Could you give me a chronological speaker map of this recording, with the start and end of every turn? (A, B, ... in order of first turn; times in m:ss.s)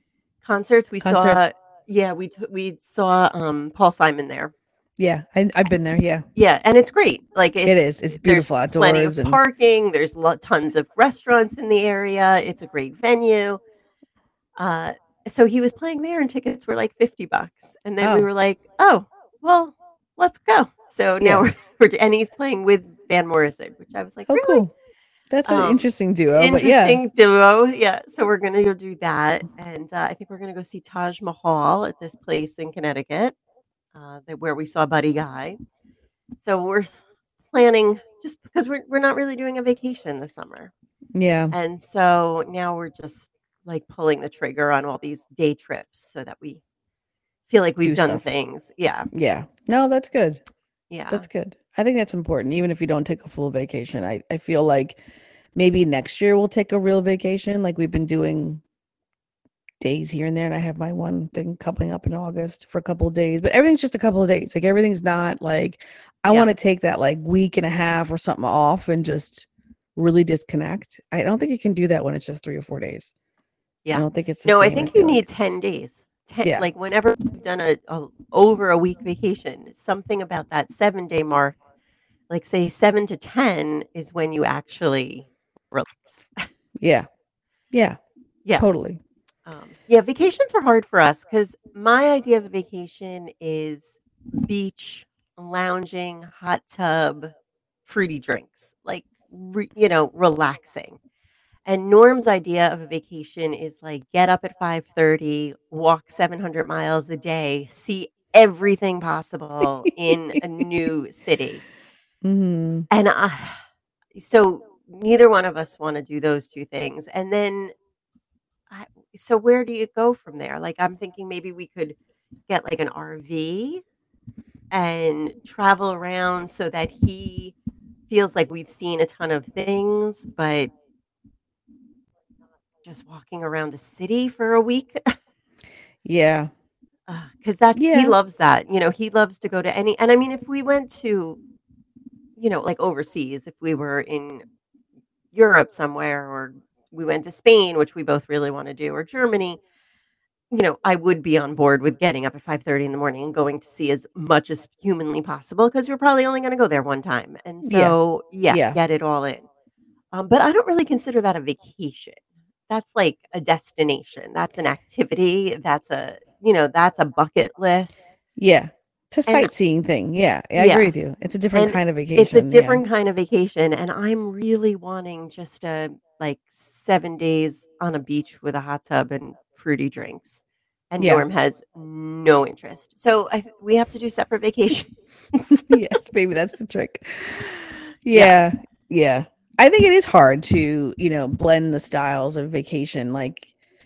0:00.4-0:04.5 A
0:01.0-0:01.4 B
0:05.0-0:06.2 B
0:06.4-0:13.6 A
0:07.7-0:09.4 B
0:14.6-0:24.6 A
0:18.0-0:18.3 B
0:24.3-0:24.7 B
0:25.3-0:27.0 B
0:25.5-0:33.4 A
0:34.0-0:35.6 A
0:36.4-0:40.7 A
0:41.2-0:41.5 B
0:41.5-0:46.6 A
0:47.5-0:49.1 A
0:47.8-0:48.2 B
0:49.1-0:50.4 B
0:50.9-0:51.3 A
0:51.1-0:55.0 B
0:55.6-0:58.6 B
0:59.8-1:13.1 B
1:13.8-1:21.6 A
1:13.9-1:15.3 B
1:22.3-1:26.5 A
1:26.8-1:27.1 B
1:27.7-1:28.0 B
1:28.6-1:29.0 B
1:29.5-1:37.3 A
1:37.9-1:41.0 A
1:41.7-1:51.6 A
1:52.2-1:52.9 B
1:52.9-1:53.6 A
1:54.2-1:57.7 A
1:58.7-2:02.0 A
2:02.5-2:03.8 A
2:04.7-2:07.6 A
2:08.1-2:10.7 A
2:12.8-2:15.2 A
2:16.0-2:16.5 B
2:17.1-2:21.4 A
2:17.8-2:18.2 B
2:22.4-2:24.4 A
2:25.3-2:29.6 A
2:30.5-2:39.5 A
2:37.6-2:38.0 B
2:38.5-2:38.8 B
2:40.1-2:48.1 A
2:48.4-2:52.8 B
2:50.6-2:50.9 A
2:51.5-3:05.8 A
3:01.0-3:01.2 B
3:05.6-3:13.5 B
3:08.1-3:08.4 A